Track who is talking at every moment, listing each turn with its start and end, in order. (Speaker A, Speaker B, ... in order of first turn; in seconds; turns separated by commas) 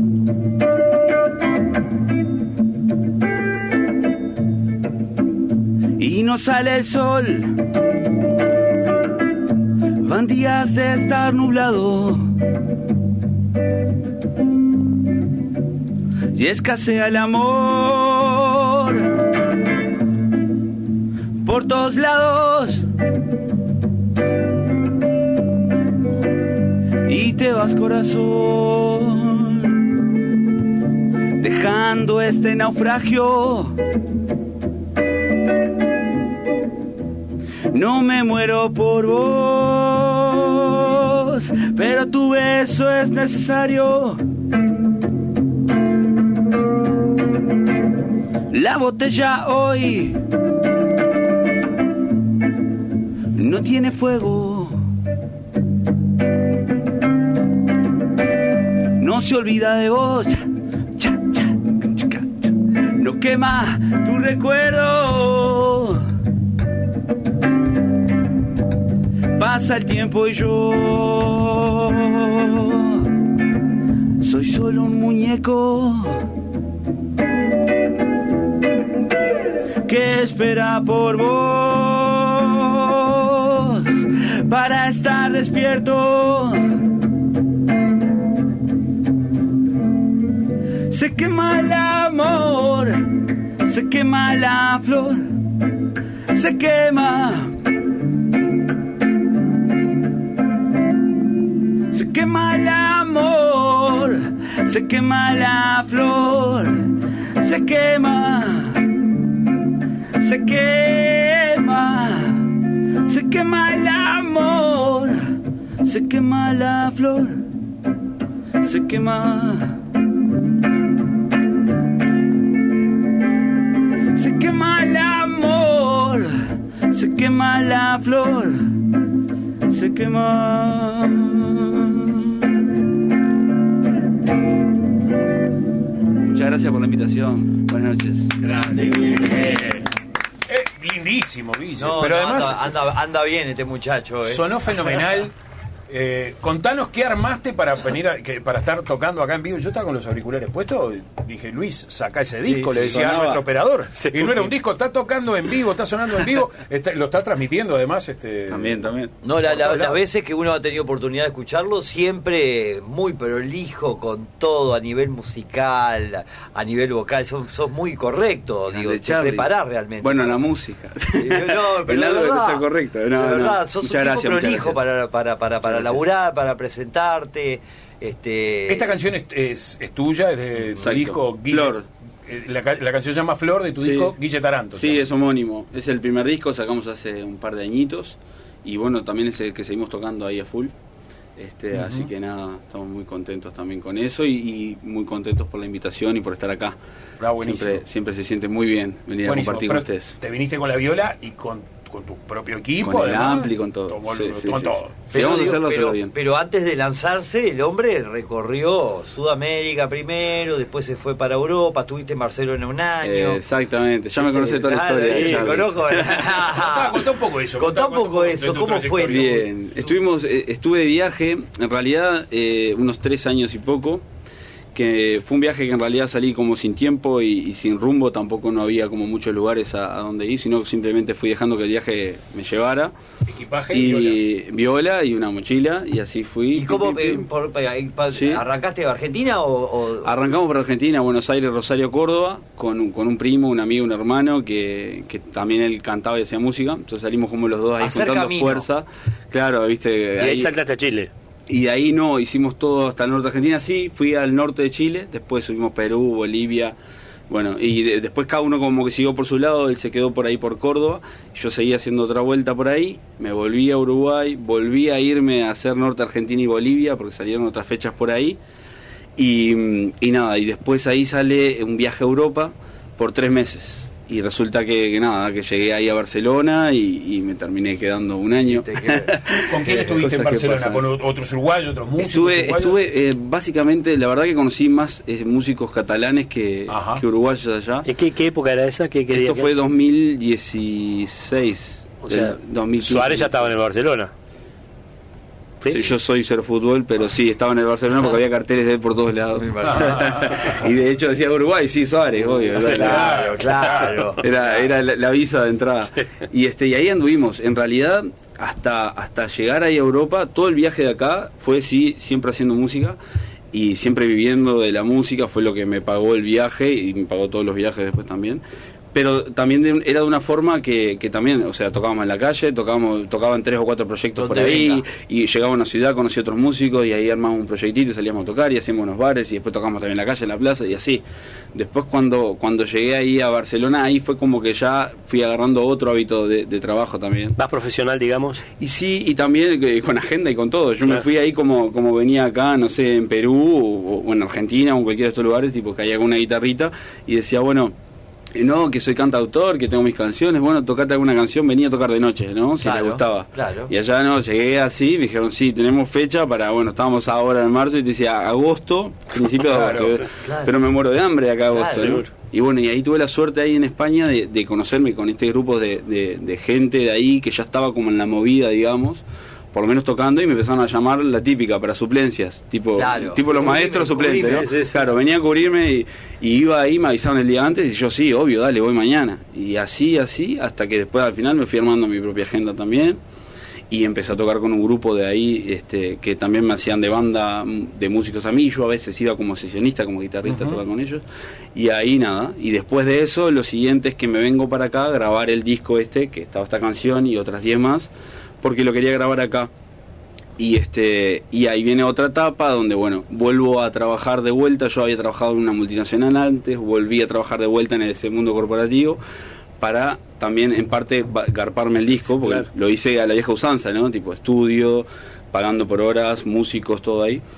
Speaker A: 6.0-7.6, Speaker A: 10.0-12.3, Speaker A: 16.3-19.1, Speaker A: 21.4-22.9, Speaker A: 27.0-29.9, Speaker A: 31.4-33.8, Speaker A: 37.7-44.2, Speaker A: 48.5-50.2, Speaker A: 53.3-54.9, Speaker A: 59.0-66.1, Speaker A: 69.4-73.1, Speaker A: 74.2-76.3, Speaker A: 79.8-86.8, Speaker A: 90.9-93.0, Speaker A: 93.7-95.4, Speaker A: 96.3-97.6, Speaker A: 101.9-109.0, Speaker A: 110.2-117.5, Speaker A: 118.6-119.8, Speaker A: 124.1-128.8, Speaker A: 129.7-132.6, Speaker A: 136.2-138.4, Speaker B: 138.4-139.8, Speaker B: 140.5-142.8, Speaker C: 141.8-145.1, Speaker B: 144.3-145.3, Speaker B: 145.9-158.8, Speaker A: 152.5-153.4, Speaker D: 154.0-154.5, Speaker A: 158.5-159.1, Speaker C: 159.2-170.4, Speaker B: 159.5-160.0, Speaker A: 168.7-169.5, Speaker A: 170.0-174.8, Speaker C: 171.2-178.9, Speaker A: 175.6-176.1, Speaker B: 178.7-185.1, Speaker A: 180.8-181.8, Speaker A: 183.8-184.1, Speaker A: 184.8-190.7, Speaker A: 191.4-196.8, Speaker B: 191.7-192.1, Speaker B: 197.2-197.8, Speaker A: 197.4-200.2, Speaker B: 199.2-205.0, Speaker A: 202.8-206.1, Speaker C: 205.1-213.4, Speaker A: 213.0-216.3, Speaker C: 214.2-217.0, Speaker D: 215.1-215.6, Speaker B: 216.2-219.5, Speaker C: 217.6-219.4, Speaker A: 219.1-224.1, Speaker A: 224.7-232.9, Speaker B: 233.3-234.2, Speaker A: 233.7-237.3, Speaker C: 236.5-240.1, Speaker A: 238.1-238.4, Speaker A: 240.0-250.5, Speaker C: 247.8-248.7, Speaker D: 250.2-251.1, Speaker A: 251.5-256.8, Speaker A: 257.3-268.4, Speaker A: 269.2-280.8, Speaker C: 278.5-279.2, Speaker B: 279.4-282.8, Speaker A: 282.0-287.9, Speaker B: 286.7-287.0, Speaker D: 287.9-289.5, Speaker A: 289.1-293.5, Speaker D: 292.1-294.1, Speaker A: 295.7-303.3, Speaker C: 299.4-300.5, Speaker B: 299.6-300.6, Speaker C: 302.5-304.6, Speaker B: 302.6-304.0, Speaker A: 304.2-313.0, Speaker A: 313.5-337.4, Speaker C: 324.1-324.8, Speaker D: 337.4-338.5, Speaker A: 338.6-347.8, Speaker A: 348.3-383.0, Speaker C: 352.6-353.7, Speaker B: 359.5-360.0, Speaker C: 360.2-360.5, Speaker C: 361.6-362.0, Speaker D: 361.7-362.1, Speaker C: 372.8-374.5, Speaker D: 374.2-374.9, Speaker A: 383.7-391.0, Speaker B: 390.2-390.6, Speaker A: 391.6-397.9, Speaker A: 398.4-399.5, Speaker A: 400.4-409.0, Speaker A: 409.6-417.2